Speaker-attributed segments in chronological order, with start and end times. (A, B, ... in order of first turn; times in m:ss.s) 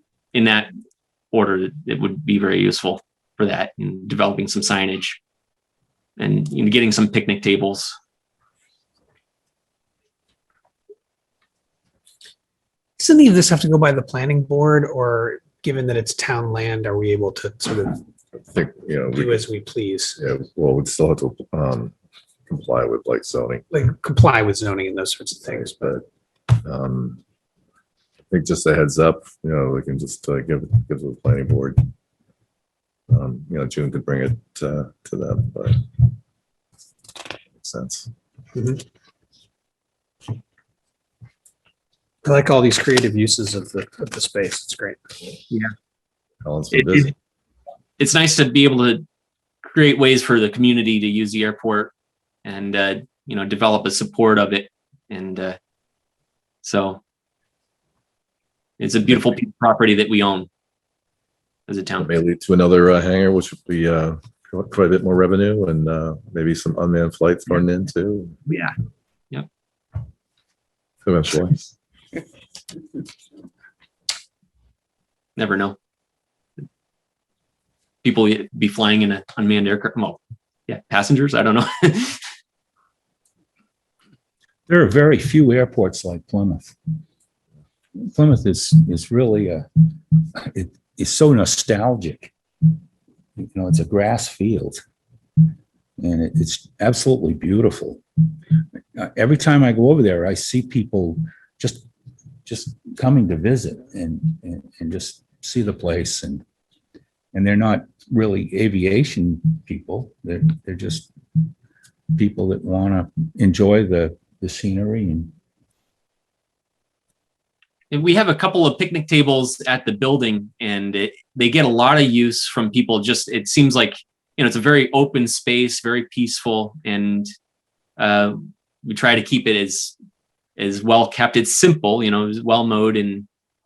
0:00.3-0:00.7 A
0:01.3-0:05.2 A
0:06.2-0:08.0 A
0:13.0-0:17.9 B
0:18.5-0:19.5 C
0:19.2-0:20.2 B
0:20.2-0:21.9 C
0:22.5-0:23.6 C
0:23.7-0:25.9 B
0:25.6-0:26.0 C
0:26.6-0:27.2 C
0:28.3-0:31.8 C
0:33.1-0:35.9 C
0:37.6-0:38.1 C
0:42.2-0:45.0 B
0:46.4-0:47.1 C
0:48.0-0:49.0 A
0:49.6-0:51.9 A
0:52.4-0:55.6 A
0:56.6-0:57.0 A
0:58.8-1:00.5 A
1:01.7-1:02.2 A
1:02.0-1:08.4 C
1:11.0-1:11.7 C
1:15.4-1:15.8 A
1:18.0-1:22.2 A
1:24.7-1:26.8 D
1:28.0-1:29.7 D
1:30.4-1:32.3 D
1:33.4-1:34.8 D
1:36.0-1:38.0 D
1:39.0-1:41.9 D
1:42.4-1:46.4 D
1:47.3-1:51.1 D
1:52.1-1:55.3 D
1:57.9-2:07.3 A
2:08.0-2:10.0 A
2:10.6-2:13.3 A